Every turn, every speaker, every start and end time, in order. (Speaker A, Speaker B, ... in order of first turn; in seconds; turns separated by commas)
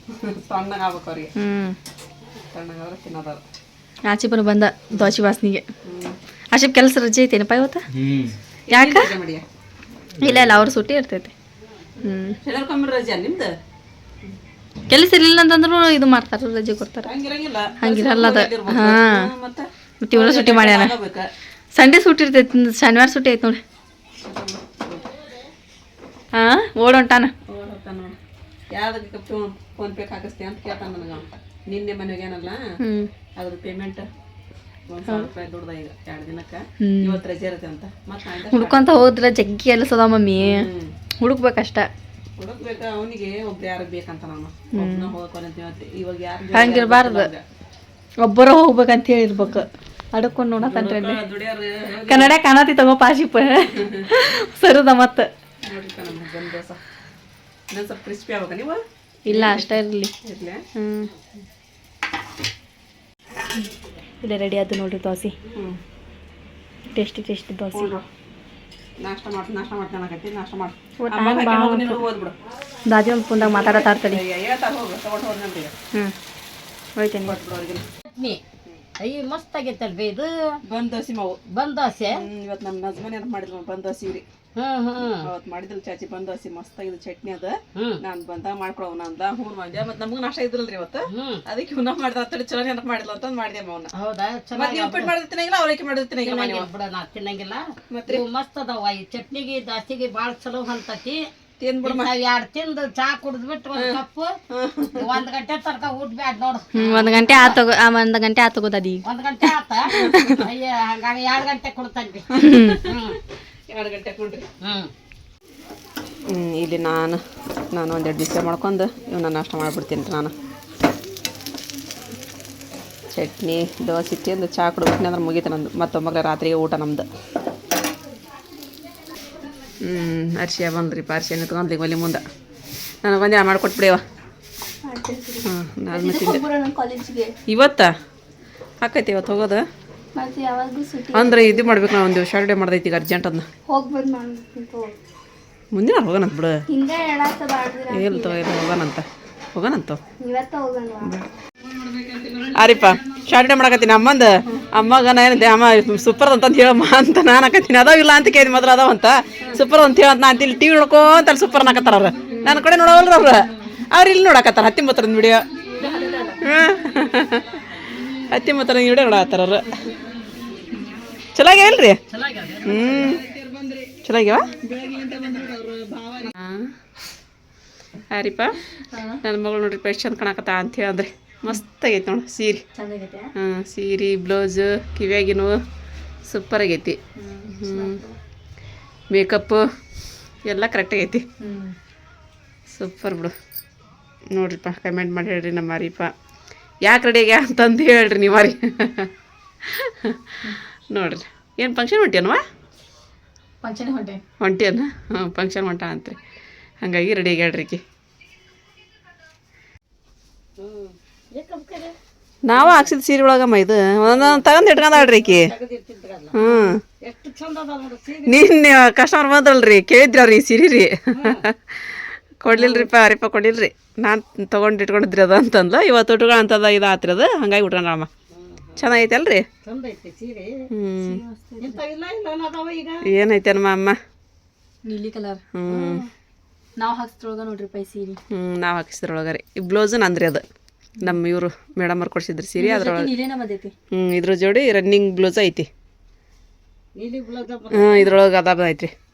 Speaker A: 0.1-1.3, Speaker B: 1.4-1.8, Speaker A: 2.5-3.4, Speaker B: 4.0-5.6, Speaker A: 5.8-6.2, Speaker B: 6.5-7.8, Speaker A: 8.7-9.4, Speaker B: 8.7-9.1, Speaker B: 10.2-11.3, Speaker B: 12.0-12.4, Speaker A: 12.4-13.5, Speaker B: 14.9-17.1, Speaker A: 17.0-21.3, Speaker B: 17.8-19.3, Speaker B: 20.0-20.9, Speaker B: 21.7-23.6, Speaker A: 24.2-25.0, Speaker B: 26.3-27.3, Speaker A: 27.5-28.2, Speaker A: 28.7-32.6, Speaker B: 32.8-33.1, Speaker A: 33.4-34.0, Speaker A: 34.9-39.0, Speaker B: 36.8-37.2, Speaker B: 38.5-40.7, Speaker A: 40.4-40.9, Speaker B: 41.2-41.9, Speaker A: 42.4-47.4, Speaker B: 44.7-45.1, Speaker B: 46.5-47.3, Speaker B: 48.2-51.2, Speaker A: 50.6-52.4, Speaker B: 52.1-55.3, Speaker A: 53.8-54.0, Speaker A: 55.6-56.8, Speaker A: 57.7-60.6, Speaker B: 59.3-60.1, Speaker B: 60.7-61.1, Speaker B: 64.2-65.3, Speaker A: 65.5-65.8, Speaker B: 66.9-67.9, Speaker A: 67.7-68.0, Speaker A: 69.0-72.3, Speaker B: 71.0-72.0, Speaker B: 72.8-74.2, Speaker A: 73.4-75.7, Speaker B: 77.0-77.3, Speaker A: 77.2-77.8, Speaker C: 78.1-78.4, Speaker C: 79.0-80.6, Speaker A: 80.6-81.4, Speaker C: 81.5-82.2, Speaker A: 82.1-84.2, Speaker C: 84.5-85.3, Speaker A: 85.1-93.9, Speaker C: 91.1-91.4, Speaker C: 93.9-95.1, Speaker A: 94.5-96.7, Speaker C: 96.2-101.3, Speaker A: 97.9-98.2, Speaker A: 101.6-102.1, Speaker C: 101.8-104.4, Speaker A: 103.7-105.1, Speaker C: 104.9-107.6, Speaker B: 106.7-109.0, Speaker C: 109.0-113.2, Speaker A: 109.9-110.3, Speaker B: 112.3-112.8, Speaker A: 112.3-113.2, Speaker A: 113.7-114.5, Speaker C: 114.6-114.9, Speaker A: 116.3-117.2, Speaker A: 117.7-120.3, Speaker A: 123.1-127.1, Speaker A: 129.8-132.2, Speaker A: 133.0-134.0, Speaker B: 134.8-137.3, Speaker A: 135.4-136.4, Speaker A: 137.5-137.9, Speaker A: 138.8-139.6, Speaker B: 140.1-141.8, Speaker A: 141.1-143.5, Speaker B: 143.7-144.9, Speaker A: 145.7-146.6, Speaker B: 146.7-148.6, Speaker A: 147.9-150.0, Speaker B: 150.2-151.1, Speaker A: 151.0-151.3, Speaker A: 151.8-165.4, Speaker B: 165.8-166.4, Speaker A: 166.4-167.6, Speaker A: 168.3-169.9, Speaker A: 171.3-172.0, Speaker C: 172.1-173.9, Speaker A: 172.6-173.2, Speaker A: 174.0-174.5, Speaker C: 174.6-176.3, Speaker A: 176.3-176.7, Speaker A: 178.1-178.6, Speaker B: 178.9-179.2, Speaker A: 179.2-182.6, Speaker B: 182.7-183.3, Speaker A: 183.3-185.6, Speaker A: 186.2-187.0, Speaker B: 187.2-188.2, Speaker A: 187.5-188.0, Speaker A: 189.1-189.6, Speaker A: 190.4-191.2, Speaker B: 191.4-191.7, Speaker A: 192.7-193.3, Speaker A: 194.3-196.1, Speaker A: 196.8-199.1, Speaker A: 199.6-202.4, Speaker B: 203.6-204.2, Speaker A: 204.4-206.2, Speaker A: 206.8-207.8, Speaker C: 210.6-211.9, Speaker A: 212.4-215.5, Speaker C: 212.5-212.9, Speaker C: 214.0-216.4, Speaker A: 216.3-216.8, Speaker B: 216.4-216.7, Speaker C: 216.9-218.5, Speaker A: 218.2-228.1, Speaker C: 221.1-221.4, Speaker C: 222.5-222.9, Speaker C: 228.3-228.8, Speaker A: 228.8-229.5, Speaker C: 229.6-230.7, Speaker A: 230.7-231.2, Speaker B: 231.0-231.8, Speaker C: 231.6-233.1, Speaker A: 233.0-233.9, Speaker B: 234.8-235.4, Speaker A: 235.5-236.0, Speaker C: 235.7-236.1, Speaker B: 236.8-238.2, Speaker A: 238.3-240.4, Speaker A: 241.0-243.1, Speaker B: 242.6-243.7, Speaker A: 243.9-245.7, Speaker C: 246.9-248.2, Speaker A: 247.7-248.9